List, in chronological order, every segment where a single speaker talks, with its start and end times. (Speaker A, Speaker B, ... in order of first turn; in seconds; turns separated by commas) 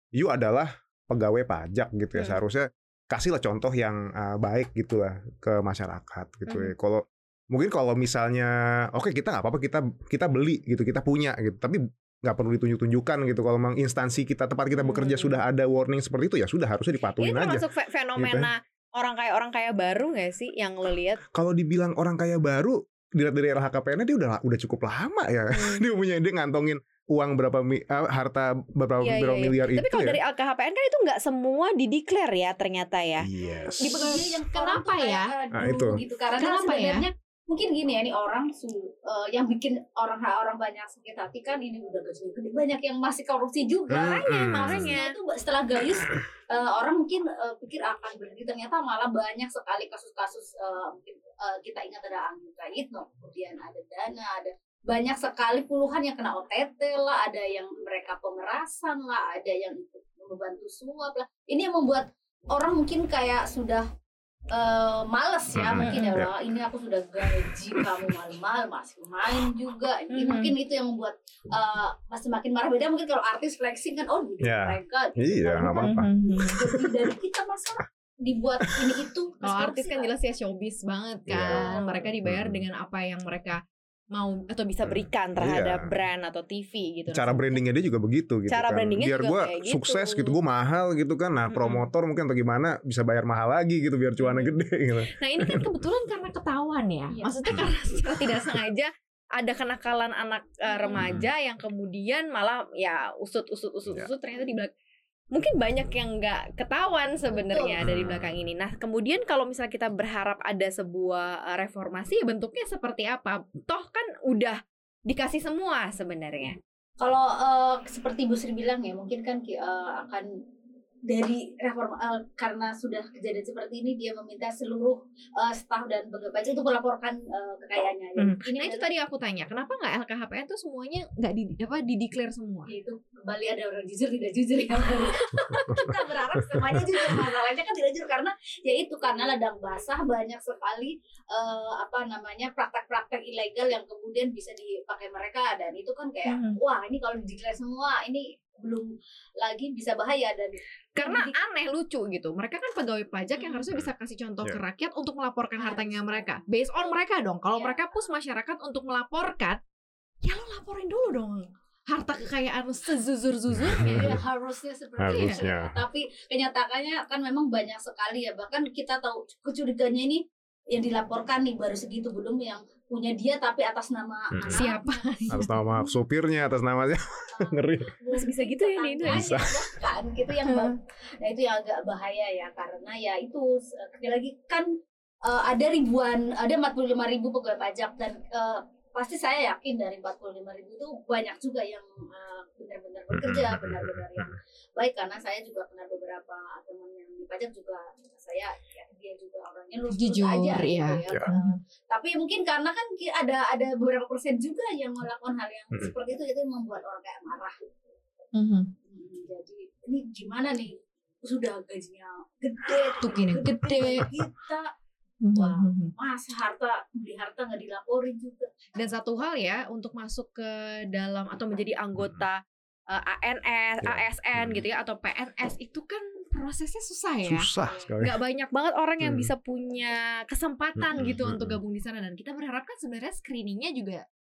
Speaker A: 0.2-17.6, Speaker B: 6.5-6.7, Speaker B: 14.7-15.4, Speaker B: 17.2-21.2, Speaker A: 18.1-18.5, Speaker A: 21.3-30.2, Speaker B: 25.5-25.8, Speaker B: 29.0-33.3, Speaker A: 33.2-34.0, Speaker C: 33.4-63.9, Speaker B: 33.8-35.3, Speaker A: 35.5-36.0, Speaker B: 36.4-37.0, Speaker A: 43.9-44.9, Speaker B: 44.1-45.1, Speaker C: 64.5-80.1, Speaker A: 65.5-66.3, Speaker B: 65.8-66.2, Speaker B: 70.1-70.5, Speaker A: 74.4-76.8, Speaker B: 75.8-76.6, Speaker B: 79.4-83.6, Speaker A: 81.3-81.6, Speaker C: 81.5-82.1, Speaker A: 82.2-82.6, Speaker B: 84.1-87.6, Speaker A: 84.8-85.9, Speaker A: 87.1-95.7, Speaker B: 88.5-90.3, Speaker B: 91.5-91.8, Speaker B: 94.2-94.5, Speaker B: 95.2-104.7, Speaker C: 97.1-97.7, Speaker C: 100.7-101.0, Speaker A: 101.0-101.2, Speaker B: 105.3-116.6, Speaker A: 107.8-108.4, Speaker C: 117.0-120.3, Speaker C: 121.1-128.8, Speaker B: 128.2-132.7, Speaker C: 132.7-148.9, Speaker B: 135.2-135.9, Speaker B: 146.3-146.6, Speaker C: 149.4-151.3, Speaker B: 151.0-159.6, Speaker C: 153.4-153.7, Speaker C: 155.6-156.4, Speaker C: 157.5-158.1, Speaker B: 160.2-164.2, Speaker A: 163.6-164.2, Speaker C: 163.8-175.8, Speaker A: 165.0-165.8, Speaker B: 165.1-165.4, Speaker A: 174.3-174.6, Speaker B: 174.5-175.5, Speaker A: 175.3-177.9, Speaker C: 177.3-184.7, Speaker B: 178.1-179.4, Speaker A: 179.1-179.6, Speaker B: 180.4-180.7, Speaker C: 185.2-207.6, Speaker A: 193.1-194.3, Speaker B: 199.9-201.6, Speaker B: 208.3-208.7, Speaker C: 208.8-214.7, Speaker B: 213.0-214.1, Speaker B: 215.2-215.9, Speaker C: 215.3-218.6, Speaker B: 218.8-222.4, Speaker A: 222.0-222.3, Speaker B: 222.9-227.5, Speaker A: 223.8-224.6, Speaker A: 227.2-228.2, Speaker C: 227.6-227.9, Speaker B: 228.0-234.0, Speaker A: 229.0-229.3, Speaker A: 230.8-231.6